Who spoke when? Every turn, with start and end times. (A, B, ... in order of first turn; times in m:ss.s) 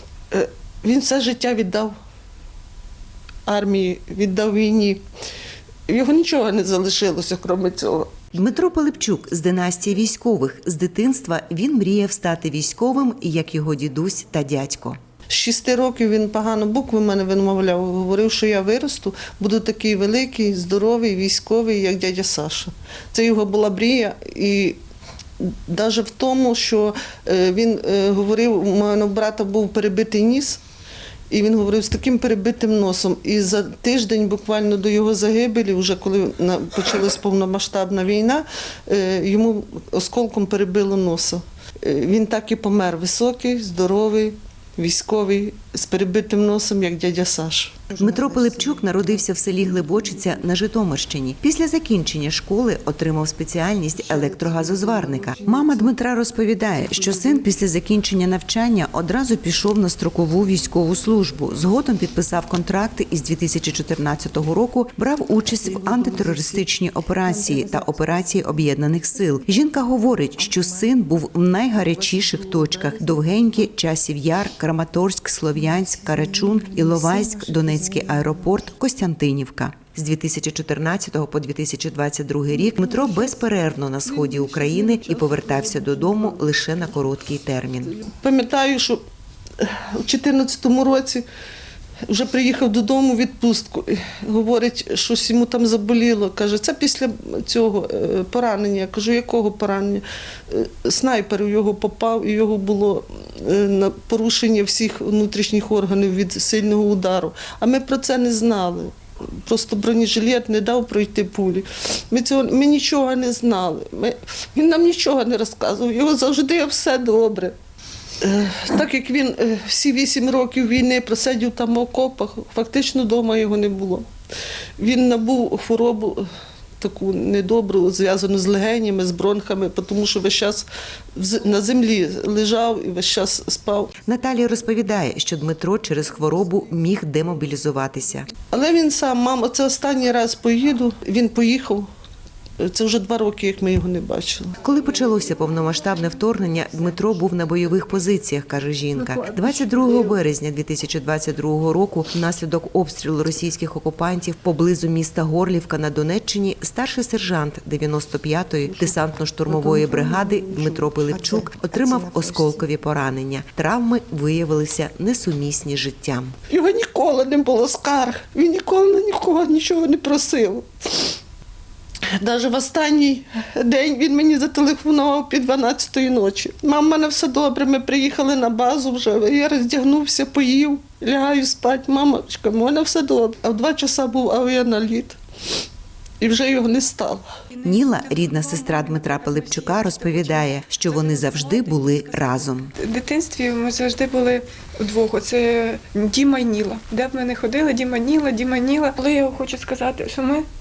0:00.3-0:01.9 A
0:03.5-0:05.0 A
0:05.9-0:08.1 A
0:08.3-0:15.0 B
0:15.3-0:24.8 A
0:25.4-0:30.6 A
0:31.3-0:48.0 A
0:48.0-1:28.0 B
1:24.4-1:25.2 A
1:28.0-1:29.0 A
1:29.6-1:31.2 A
1:32.1-1:57.6 A
1:58.2-2:04.1 A
2:04.8-2:06.3 A
2:06.8-2:13.9 A
2:14.1-2:18.3 B
2:18.5-2:21.9 A
2:22.6-2:24.6 A
2:24.6-2:46.3 B
2:29.2-2:30.1 A
2:46.5-2:51.1 A
2:52.1-3:05.2 A
3:06.2-3:07.3 A
3:07.5-3:20.4 C
3:07.6-3:12.7 B